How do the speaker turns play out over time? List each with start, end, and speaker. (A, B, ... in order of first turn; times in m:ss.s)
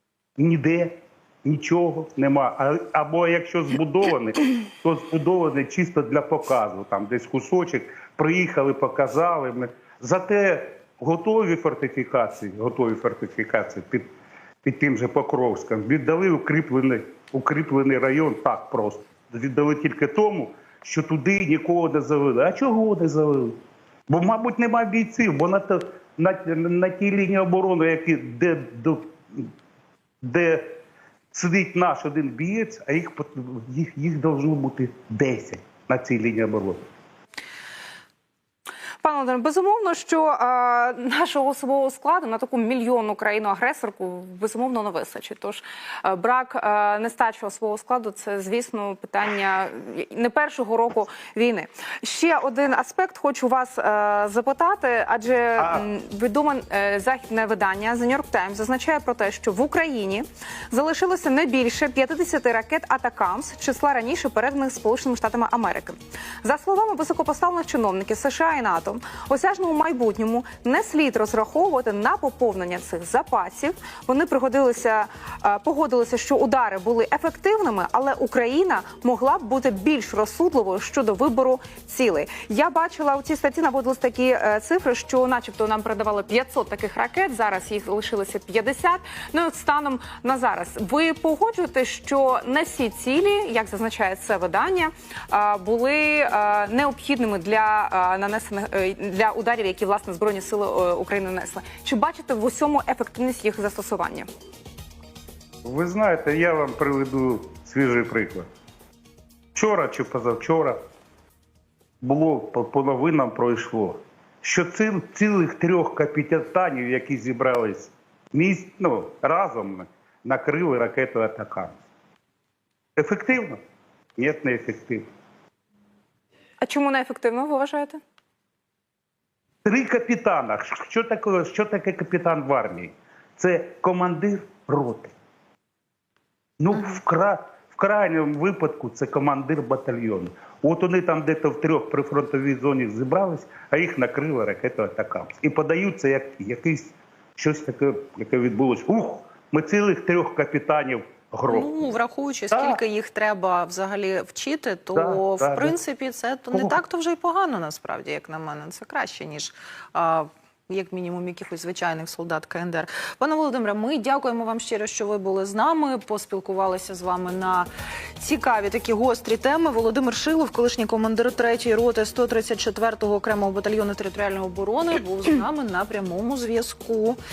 0:00.4-0:14.1 A
0:14.6-0:23.6 A
0:24.1-0:29.5 A
0:30.2-0:30.8 A
0:31.3-0:36.8 A
0:39.0-1:44.3 B
0:55.6-0:55.9 A
1:45.6-1:48.4 A
1:49.5-1:50.8 A
1:52.0-2:01.8 A
2:03.0-2:03.6 A
2:04.2-2:05.0 A
2:06.6-2:08.0 B
2:09.6-2:15.1 A
2:16.6-2:32.0 A
2:31.5-2:57.2 C
2:32.5-2:32.8 A
2:34.9-2:35.8 A
2:36.5-2:36.8 A